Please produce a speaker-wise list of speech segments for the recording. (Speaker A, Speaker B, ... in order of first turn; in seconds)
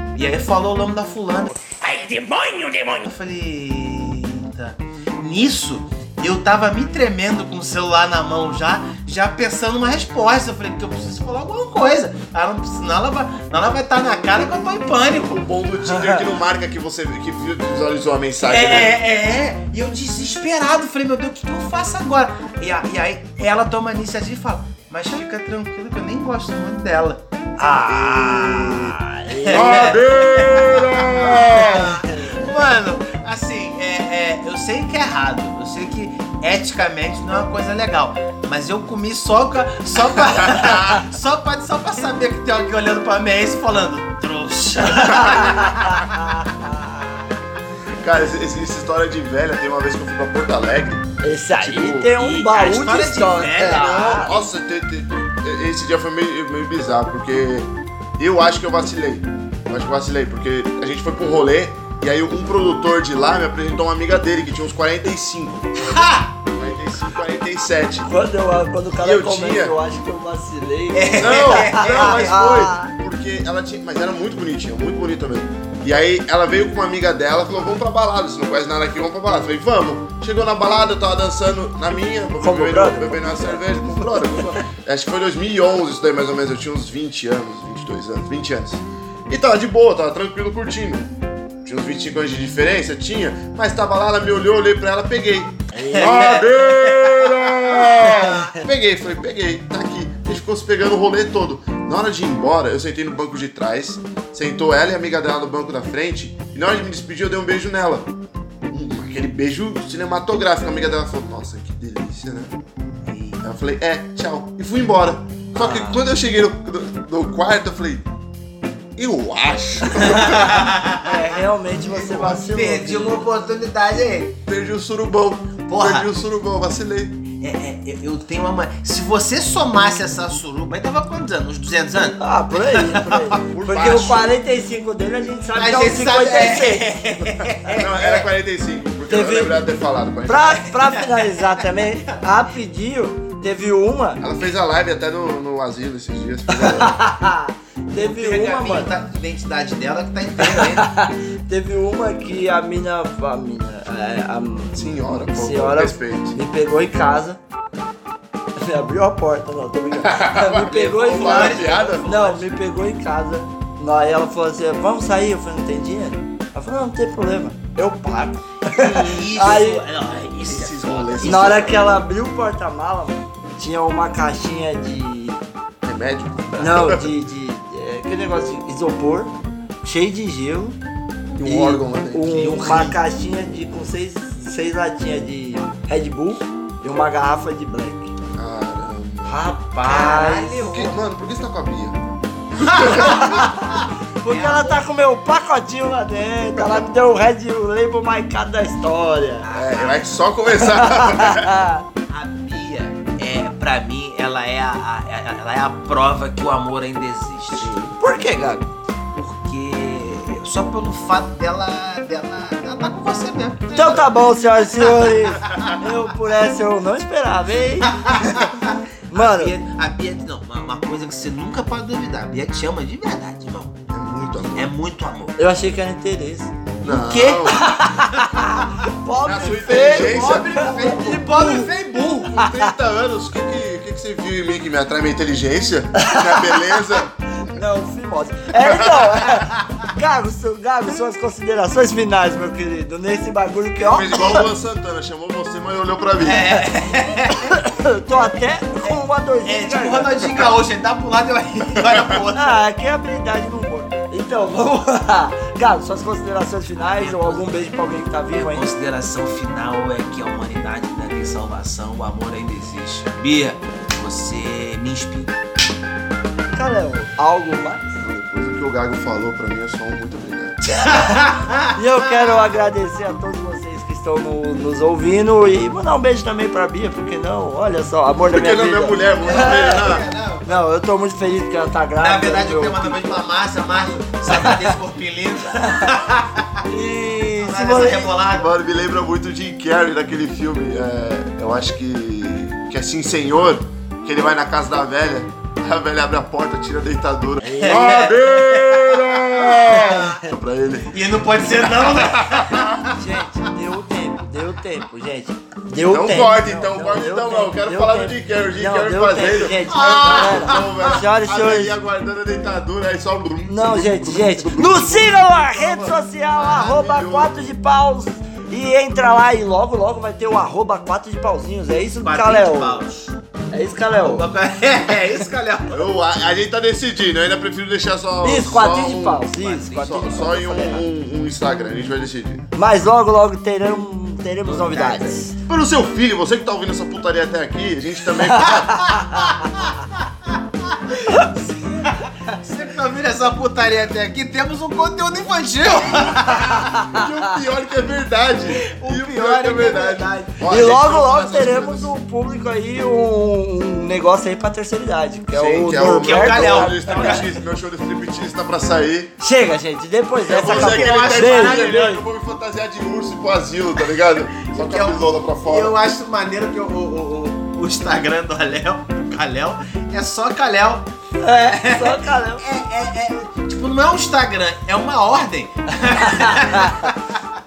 Speaker A: 0.1-15.4, 18.5-27.2, 29.4-46.2, 52.2-54.5, 65.8-66.3, 70.9-72.3, 95.8-97.6, 113.0-113.4, 115.5-116.0, 120.1-121.2, 122.1-124.4, 125.7-126.0, 127.4-134.1, 135.5-138.3, 147.9-150.9, 161.0-162.5, 168.8-171.8, 182.5-182.9, 189.8-190.9, 192.7-194.8, 199.4-200.1, 202.1-207.9, 209.1-215.7, 217.9-223.8, 224.5-225.4, 226.8-227.7, 229.7-232.4, 246.2-247.5, 249.4-252.6, 256.8-257.6, 258.4-265.3, 270.7-271.7, 279.2-280.6, 282.0-286.4, 287.4-288.5, 297.6-299.2, 300.9-302.9, 309.7-310.9, 322.0-323.1, 323.9-325.9, 329.3-330.1, 334.5-335.2, 338.9-341.2, 341.8-346.7, 348.6-350.4, 355.8-357.3, 360.3-361.9, 364.4-370.9, 371.4-377.0
Speaker B: 15.3-18.9, 27.8-28.9, 29.5-32.0, 48.0-52.1, 54.1-66.0, 66.5-68.1, 69.0-69.8, 71.2-91.1, 91.6-108.1, 108.7-112.5, 113.4-118.0, 119.0-120.7, 122.0-122.3, 124.5-127.2, 133.5-134.3, 137.8-140.7, 144.2-147.0, 154.7-156.4, 159.9-162.1, 168.8-169.4, 170.4-172.0, 175.8-177.1, 181.3-182.9, 188.3-189.5, 190.6-192.0, 192.6-193.2, 199.5-201.5, 207.7-207.9, 223.9-224.7, 226.8-227.6, 229.2-231.7, 232.2-237.1, 238.6-239.1, 243.8-246.6, 268.0-270.8, 278.2-280.1, 288.3-302.8, 305.8-317.3, 325.7-332.4, 335.5-339.0, 346.9-351.9, 355.3-359.1, 360.3-365.8
Speaker C: 27.6-30.0, 31.6-32.5, 45.0-46.9, 51.2-54.4, 68.0-72.9, 82.4-84.6, 95.8-96.0, 121.0-123.2, 132.2-136.8, 139.1-139.6, 140.3-144.2, 146.5-148.9, 150.4-157.4, 158.6-169.8, 171.2-175.4, 176.6-180.8, 181.4-188.1, 189.2-190.6, 192.8-199.4, 200.7-201.8, 208.0-208.7, 213.7-218.4, 219.1-219.6, 225.4-226.5, 227.5-231.6, 232.4-232.7, 236.0-236.8, 237.4-244.4, 247.5-250.2, 252.3-258.6, 266.5-268.0, 271.7-279.9, 280.4-283.2, 286.7-288.1, 297.4-298.0, 302.9-311.7, 313.5-322.8, 323.5-324.2, 328.2-330.8, 332.5-335.3, 338.4-339.5, 341.1-341.9, 346.4-347.0, 350.5-357.2, 359.2-362.0, 371.2-372.4, 376.0-376.8